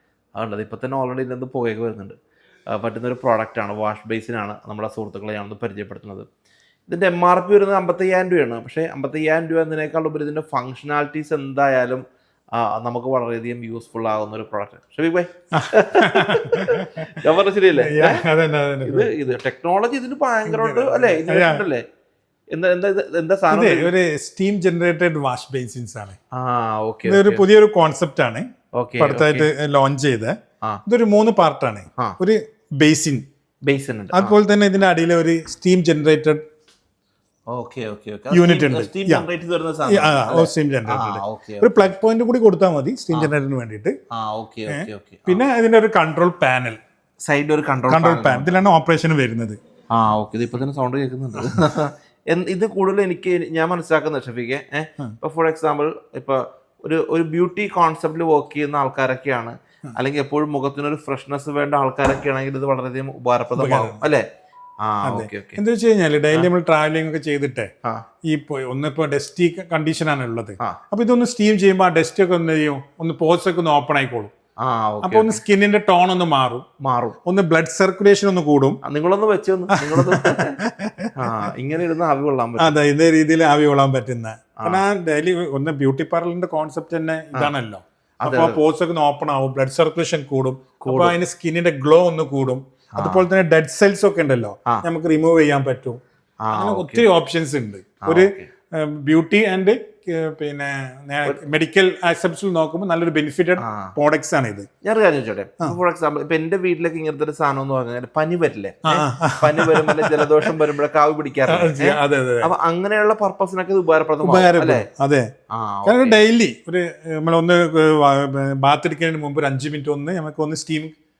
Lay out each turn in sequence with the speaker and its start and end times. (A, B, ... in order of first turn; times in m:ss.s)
0:00.4-0:02.2 A
0:02.7-0:06.3 A
0:06.9-0:18.2 A
0:15.6-0:17.2 B
0:17.8-0:19.2 B
0:18.8-0:21.8 A
0:20.4-0:21.6 B
0:22.5-0:23.9 A
0:23.5-0:26.2 B
0:26.3-0:27.4 A
0:27.1-0:28.5 B
0:28.8-0:29.5 A
0:29.0-0:30.4 B
0:30.9-0:33.2 B
0:33.6-0:34.3 A
0:34.1-0:36.4 B
0:37.5-0:41.9 A
0:38.3-0:39.2 B
0:39.9-0:44.0 B
0:44.1-0:45.4 A
0:44.7-0:46.8 B
0:47.2-0:48.5 A
0:47.9-0:49.6 B
0:49.9-1:04.2 A
1:03.6-1:04.0 B
1:04.8-1:05.6 A
1:05.0-1:07.7 B
1:08.2-1:14.3 B
1:14.6-1:15.4 A
1:15.0-1:16.6 B
1:16.8-1:17.2 A
1:17.2-1:18.8 B
1:18.8-1:20.6 A
1:19.8-1:21.1 B
1:21.2-1:22.8 A
1:22.6-1:36.0 B
1:24.6-1:24.8 A
1:28.2-1:28.6 A
1:30.8-1:31.2 A
1:33.0-1:33.3 A
1:36.4-1:37.1 A
1:36.5-1:44.7 B
1:38.0-1:38.5 A
1:43.6-1:44.0 A
1:44.8-1:54.9 A
1:48.9-1:50.3 B
1:51.5-1:52.5 B
1:54.2-1:55.3 B
1:55.5-1:56.2 A
1:55.8-2:01.0 B